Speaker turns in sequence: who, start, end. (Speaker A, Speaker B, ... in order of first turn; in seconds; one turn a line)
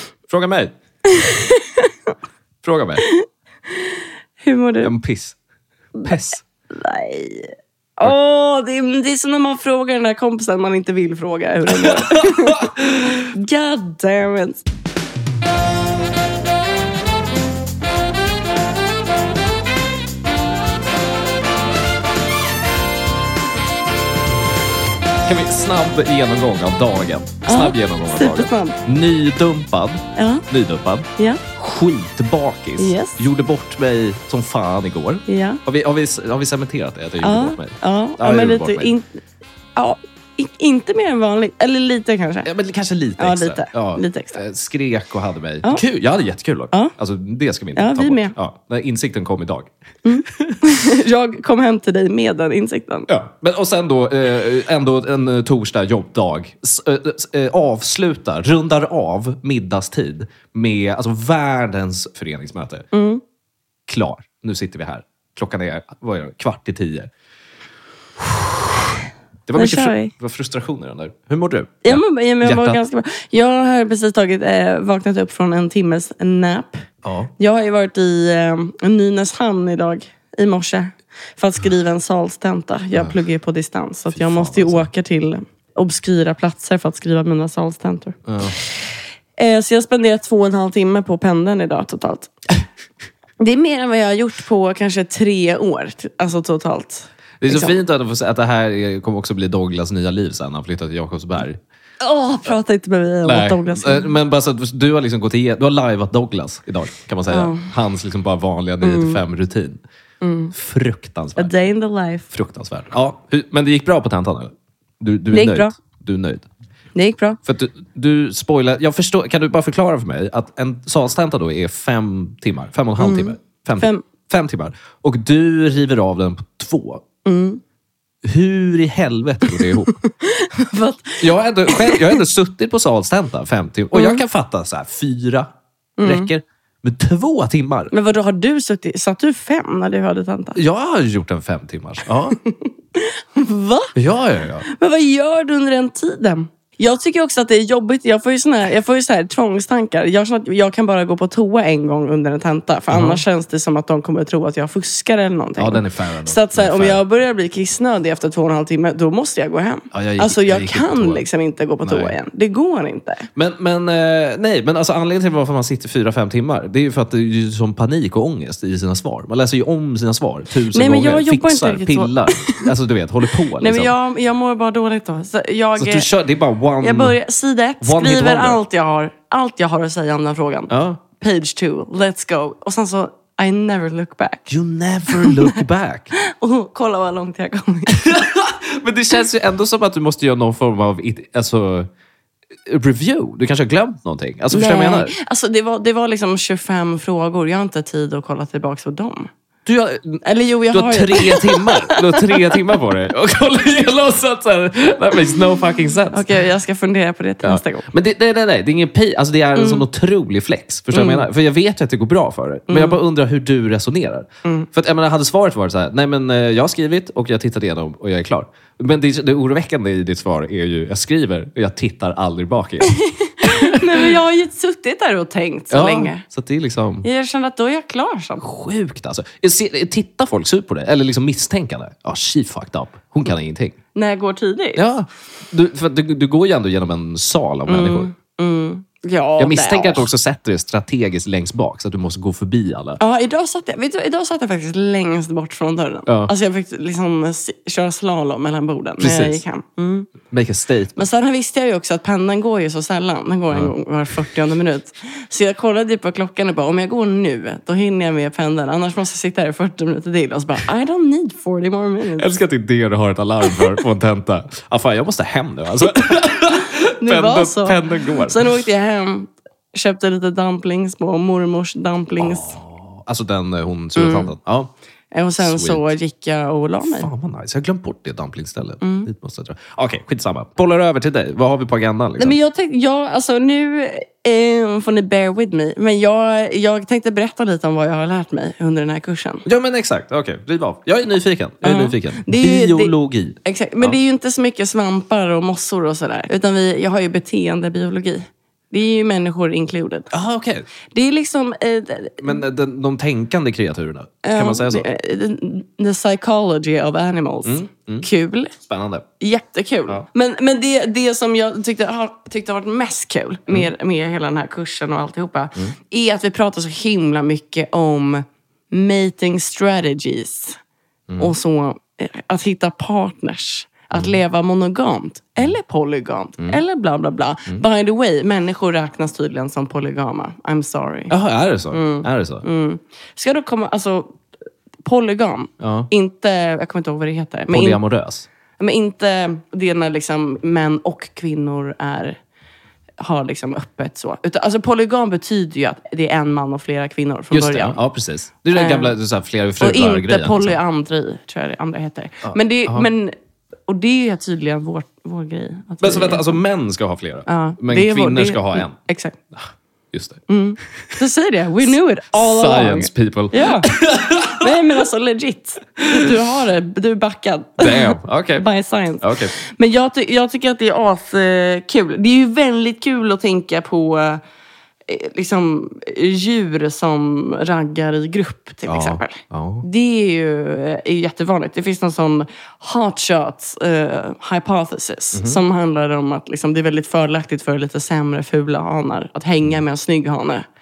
Speaker A: 0.3-0.7
Speaker B: 1.0-2.1
Speaker A: 2.6-3.0
Speaker B: 3.0-4.9
Speaker A: 4.8-5.4
Speaker A: 6.0-6.4
Speaker B: 6.7-14.6
Speaker A: 11.7-13.2
Speaker A: 25.2-38.9
Speaker B: 27.4-28.8
Speaker B: 30.1-30.4
Speaker B: 32.8-33.2
Speaker B: 35.3-35.6
Speaker B: 37.2-39.1
Speaker B: 39.8-42.5
Speaker A: 42.4-49.7
Speaker B: 43.2-44.4
Speaker B: 47.8-48.3
Speaker B: 50.0-53.1
Speaker A: 53.1-62.9
Speaker B: 62.9-63.2
Speaker A: 63.9-67.1
Speaker A: 68.2-68.8
Speaker A: 69.5-72.8
Speaker B: 69.5-70.1
Speaker B: 71.8-76.8
Speaker A: 77.0-77.3
Speaker B: 77.4-88.8
Speaker A: 84.1-84.9
Speaker A: 88.2-88.6
Speaker B: 89.4-92.3
Speaker B: 93.4-97.8
Speaker A: 97.4-101.6
Speaker B: 102.0-104.1
Speaker A: 103.2-109.8
Speaker B: 107.3-107.7
Speaker B: 108.8-109.2
Speaker B: 110.2-110.5
Speaker A: 110.5-111.6
Speaker B: 111.3-112.3
Speaker A: 112.3-116.5
Speaker B: 115.3-115.7
Speaker B: 116.9-117.4
Speaker A: 117.4-127.0
Speaker B: 123.0-124.0
Speaker B: 127.2-127.6
Speaker A: 128.2-129.9
Speaker B: 129.4-132.2
Speaker A: 131.2-135.5
Speaker B: 133.9-134.2
Speaker B: 136.0-136.3
Speaker A: 136.0-137.9
Speaker B: 137.9-140.6
Speaker A: 140.6-142.4
Speaker B: 142.5-143.9
Speaker A: 143.9-144.7
Speaker B: 144.7-163.3
Speaker A: 152.9-153.2
Speaker A: 155.6-157.0
Speaker A: 159.9-161.2
Speaker A: 161.8-162.2
Speaker A: 163.3-173.9
Speaker B: 170.7-172.7
Speaker B: 173.6-176.1
Speaker A: 175.8-177.2
Speaker B: 176.8-184.5
Speaker A: 177.8-178.6
Speaker A: 180.7-181.0
Speaker A: 184.5-186.1
Speaker B: 185.1-185.6
Speaker B: 186.1-188.2
Speaker A: 187.9-191.9
Speaker A: 192.7-195.1
Speaker B: 194.5-199.3
Speaker A: 199.7-206.3
Speaker B: 200.2-202.6
Speaker B: 206.1-207.8
Speaker A: 207.4-224.1
Speaker B: 209.5-209.8
Speaker B: 210.9-211.3
Speaker B: 212.7-213.0
Speaker B: 223.2-226.2
Speaker A: 225.7-227.1
Speaker B: 227.0-228.4
Speaker A: 228.4-233.8
Speaker B: 233.9-234.8
Speaker A: 234.7-238.1
Speaker B: 237.7-240.1
Speaker A: 239.4-243.0
Speaker B: 243.0-250.1
Speaker A: 246.1-246.3
Speaker A: 249.0-249.4
Speaker A: 250.3-251.0
Speaker B: 251.0-262.3
Speaker A: 262.2-268.4
Speaker B: 267.0-272.6
Speaker A: 272.2-274.7
Speaker B: 273.9-274.3
Speaker B: 275.1-277.1
Speaker A: 275.4-275.9
Speaker A: 276.8-282.4
Speaker B: 278.8-279.1
Speaker B: 282.2-289.4
Speaker A: 289.4-293.9
Speaker B: 291.6-292.9
Speaker B: 293.4-300.1
Speaker A: 300.1-300.7
Speaker B: 300.9-302.4
Speaker A: 302.2-304.9
Speaker B: 304.2-308.5
Speaker A: 307.4-308.1
Speaker A: 308.7-309.0
Speaker B: 309.2-320.6
Speaker A: 321.1-321.3
Speaker B: 321.2-331.1
Speaker A: 331.1-332.4
Speaker B: 331.7-334.2
Speaker B: 334.8-337.8
Speaker A: 335.6-335.9
Speaker A: 337.5-338.3
Speaker B: 338.6-342.2
Speaker B: 343.0-347.8
Speaker A: 347.3-350.6
Speaker B: 348.5-349.0
Speaker B: 349.6-353.1
Speaker A: 352.2-352.9
Speaker B: 353.7-356.4
Speaker A: 355.8-358.8
Speaker B: 357.2-359.2
Speaker A: 359.3-360.2
Speaker B: 360.3-363.7
Speaker A: 362.1-364.6
Speaker B: 364.3-374.2
Speaker A: 365.8-366.1
Speaker A: 367.6-368.5
Speaker A: 369.0-369.3
Speaker B: 374.9-390.4
Speaker A: 378.6-379.6
Speaker A: 385.1-385.4